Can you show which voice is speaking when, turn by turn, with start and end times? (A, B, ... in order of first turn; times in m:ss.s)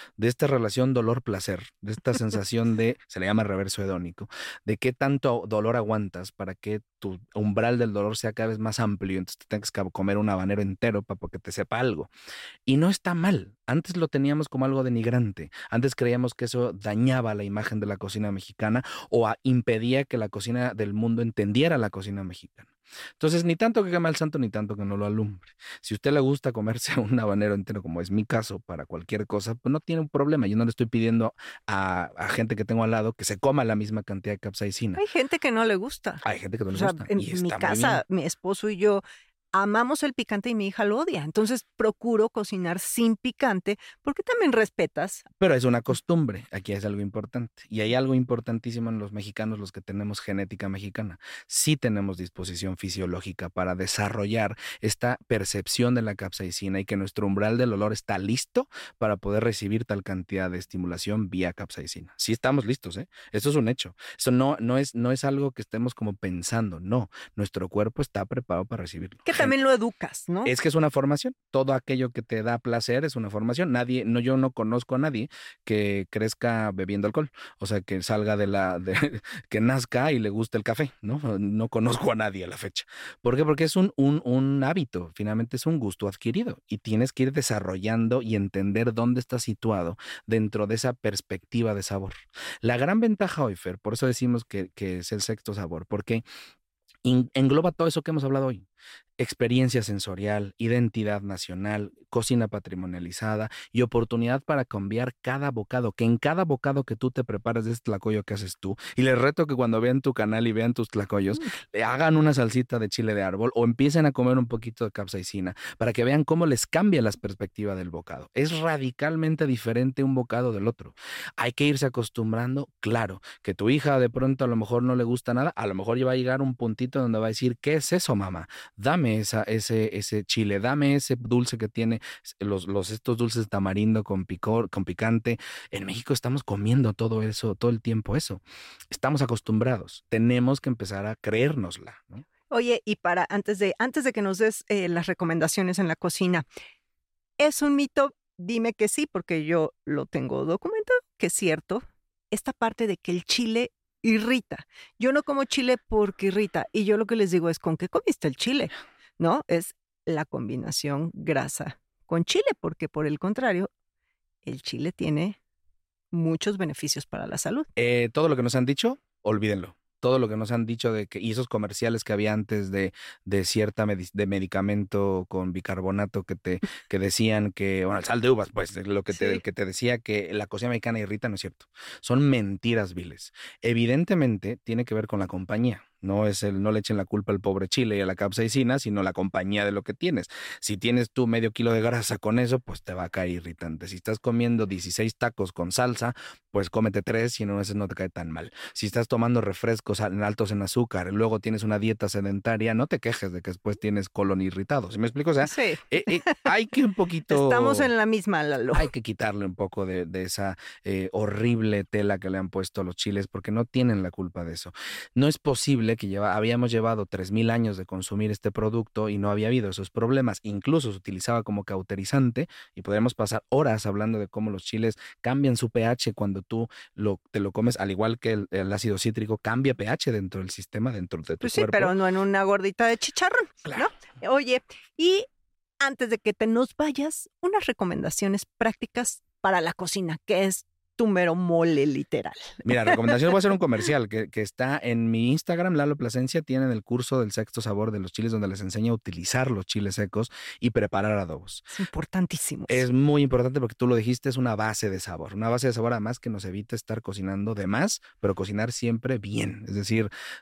0:00.2-0:12.1 A
0:12.7-0:22.7 A
0:23.2-0:35.0 A
0:35.0-0:39.0 B
0:36.2-0:38.0 A
0:39.5-0:45.3 B
0:45.4-1:09.5 A
1:09.3-1:10.5 B
1:10.4-1:36.2 A
1:37.0-1:38.7 A
1:39.2-2:22.2 A
2:22.5-2:26.5 B
2:27.4-2:43.7 B
2:44.4-2:45.4 B
2:46.1-2:47.7 B
2:47.8-3:27.9 A
2:59.1-2:59.4 B
3:25.4-3:26.4 B
3:27.3-3:28.9 B
3:28.7-3:52.0 A
3:51.4-3:55.3 B
3:55.8-4:03.1 B
4:02.6-4:11.7 A
4:11.7-4:12.8 B
4:12.7-4:20.1 A